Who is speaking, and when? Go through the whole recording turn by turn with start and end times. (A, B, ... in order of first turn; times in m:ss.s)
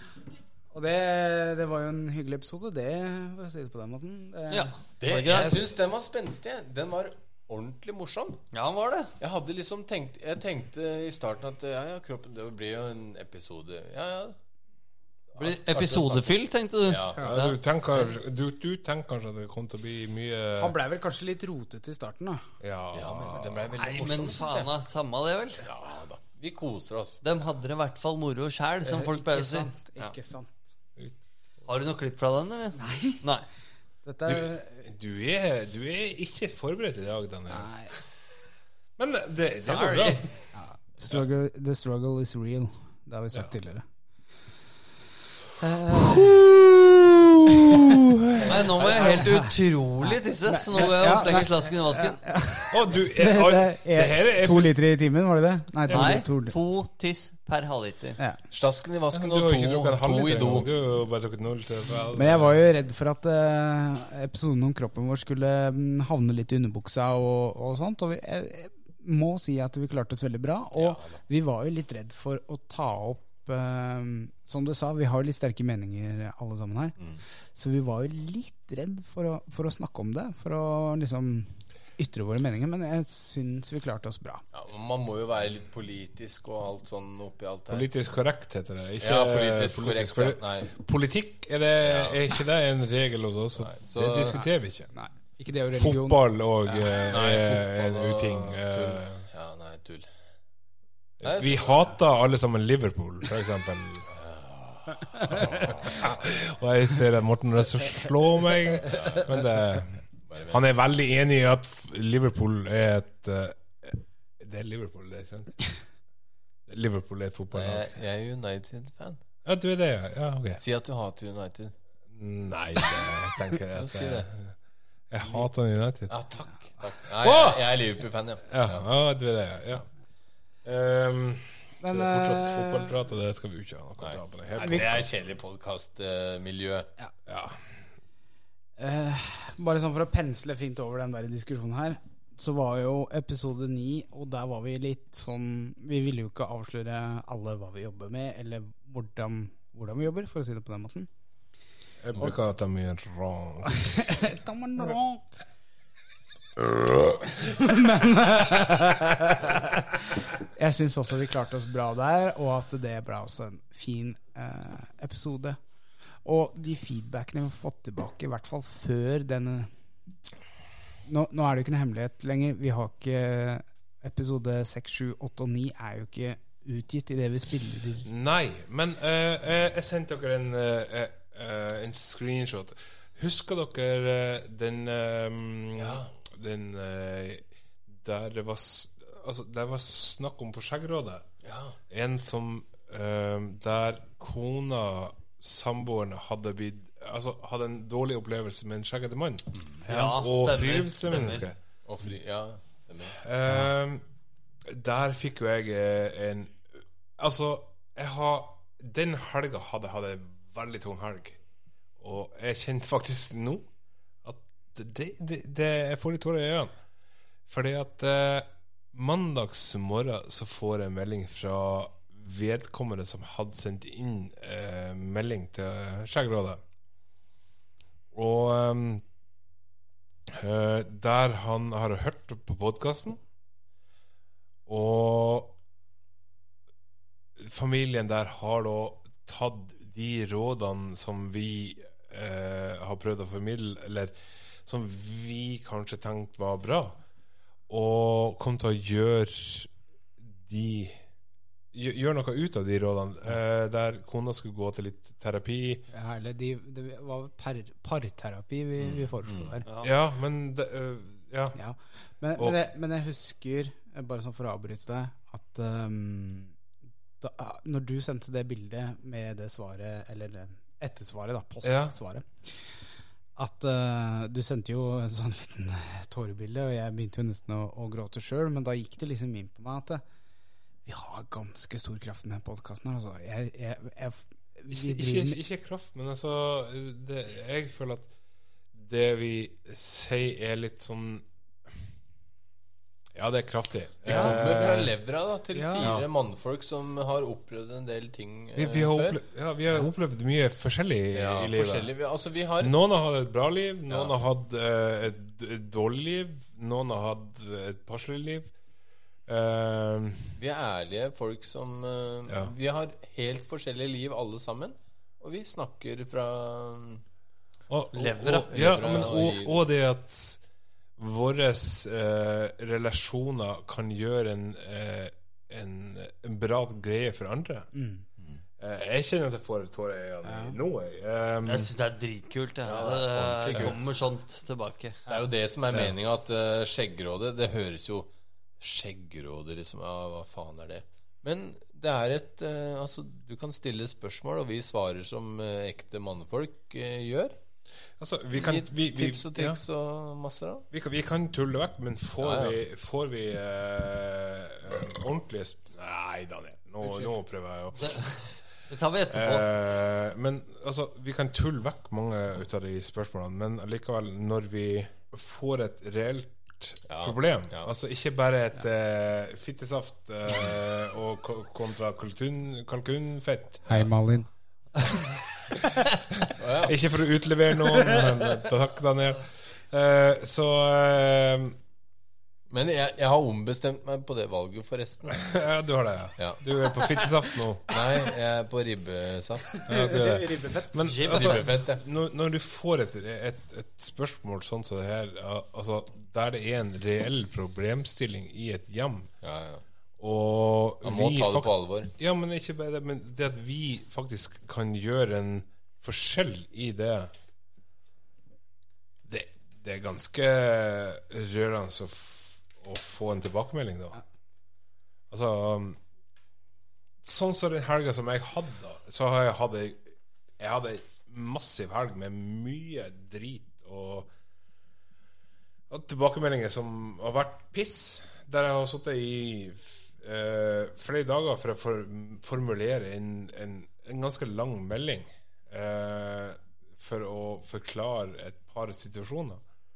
0:00.7-0:05.6 A
0:04.5-0:05.6 B
0:05.0-0:08.4 C
0:08.5-0:09.1 B
0:09.2-0:14.4 C
0:15.3-0:17.3 C
0:15.4-0:17.6 B
0:17.2-0:20.8 D
0:20.6-0:22.4 A
0:22.6-0:23.7 D
0:22.9-0:24.7 C
0:23.8-0:25.6 B
0:25.6-0:27.2 C
0:27.2-0:30.1 B
0:28.8-0:30.7 A
0:31.7-0:33.4 B
0:32.8-0:33.2 A
0:34.0-0:34.8 A
0:34.2-0:37.7 D
0:37.5-0:37.9 A
0:39.0-0:40.3 D
0:39.6-0:40.2 B
0:40.5-0:43.8 A
0:45.8-0:46.2 A
0:45.9-0:48.6 D
0:47.5-0:48.0 A
0:48.4-0:49.3 C
0:48.5-0:52.2 B
0:48.9-0:56.5 A
0:52.7-0:54.7 D
0:55.9-0:56.1 D
0:55.9-0:58.2 B
0:58.5-1:00.7 C
0:59.1-1:02.6 D
1:02.1-1:17.0 A
1:10.8-1:11.2 C
1:17.5-1:24.4 A
1:24.5-1:27.9 C
1:27.7-1:34.9 D
1:29.0-1:30.7 C
1:31.8-1:32.2 C
1:33.6-1:34.4 C
1:34.9-1:36.9 A
1:35.7-1:39.2 D
1:37.0-1:40.1 C
1:41.2-1:44.1 D
1:41.2-1:41.9 C
1:44.1-1:46.1 C
1:45.1-1:45.5 A
1:45.6-1:55.6 D
1:48.8-1:49.3 C
1:50.3-1:50.6 C
1:56.7-1:57.9 D
1:57.5-1:59.2 C
1:59.4-2:00.6 D
2:00.6-2:01.7 C
2:02.1-2:04.5 D
2:03.7-2:04.3 C
2:05.1-2:06.1 D
2:06.1-2:08.8 C
2:07.2-2:07.7 D
2:08.5-2:09.8 D
2:10.6-2:15.2 D
2:11.8-2:12.9 A
2:14.0-2:16.9 C
2:17.3-2:17.6 D
2:18.8-2:31.1 A
2:32.0-2:34.1 D
2:33.7-2:35.3 A
2:37.4-2:45.6 A
2:46.2-2:49.7 A
2:51.0-2:58.1 A
2:58.0-3:11.3 D
3:05.7-3:06.1 C
3:11.4-3:11.8 C
3:11.9-3:21.6 D
3:19.9-3:21.4 B
3:21.8-3:23.2 C
3:23.2-3:24.0 D
3:24.6-3:26.6 D
3:27.2-3:31.4 D
3:32.0-3:33.7 D
3:34.2-3:36.7 D
3:37.5-3:46.6 D
3:48.1-3:49.0 D
3:50.3-3:53.2 D
3:54.7-3:55.5 D
3:57.4-4:07.0 D
4:07.7-4:09.7 D
4:10.4-4:11.0 D
4:11.7-4:15.8 D
4:15.9-4:19.6 A
4:18.8-4:19.6 C
4:19.8-4:21.6 D
4:21.6-4:26.5 A
4:27.2-4:32.3 A
4:31.6-4:31.9 D
4:33.4-4:40.0 A
4:40.8-4:45.4 A
4:44.7-4:48.1 D
4:48.7-4:51.2 D
4:53.1-4:54.9 D
4:54.0-4:59.2 C
4:55.5-4:55.9 A
4:55.8-4:56.1 D
4:58.6-5:01.9 D
5:01.1-5:02.7 C
5:02.6-5:08.5 D
5:03.9-5:04.1 C
5:09.3-5:10.3 D
5:10.4-5:17.0 C
5:17.7-5:20.4 D
5:17.9-5:19.0 B
5:18.5-5:19.6 C
5:21.0-5:27.7 D
5:27.7-5:28.0 A
5:28.6-5:31.7 D
5:30.2-5:30.5 A
5:31.4-5:35.0 B
5:32.6-5:33.8 C
5:35.0-5:38.1 C
5:38.6-5:47.3 C
5:48.0-5:49.6 D
5:48.3-5:50.6 C
5:50.7-5:58.1 D
5:52.2-5:52.6 C
5:58.7-5:59.5 B
5:59.1-6:13.8 D
6:06.9-6:07.7 C
6:13.7-6:14.3 A
6:16.4-6:16.8 C
6:16.6-6:21.6 D
6:22.5-6:25.2 C
6:25.1-6:27.7 D
6:26.2-6:26.4 C
6:27.7-6:29.6 C
6:29.6-6:30.9 A
6:29.6-6:39.1 D
6:30.8-6:31.5 B
6:31.0-6:31.8 C
6:39.2-6:39.6 C
6:40.0-6:47.1 D
6:40.8-6:41.9 C
6:49.0-6:54.0 D
6:55.1-6:55.8 D
6:57.0-7:04.1 D
7:05.7-7:19.4 D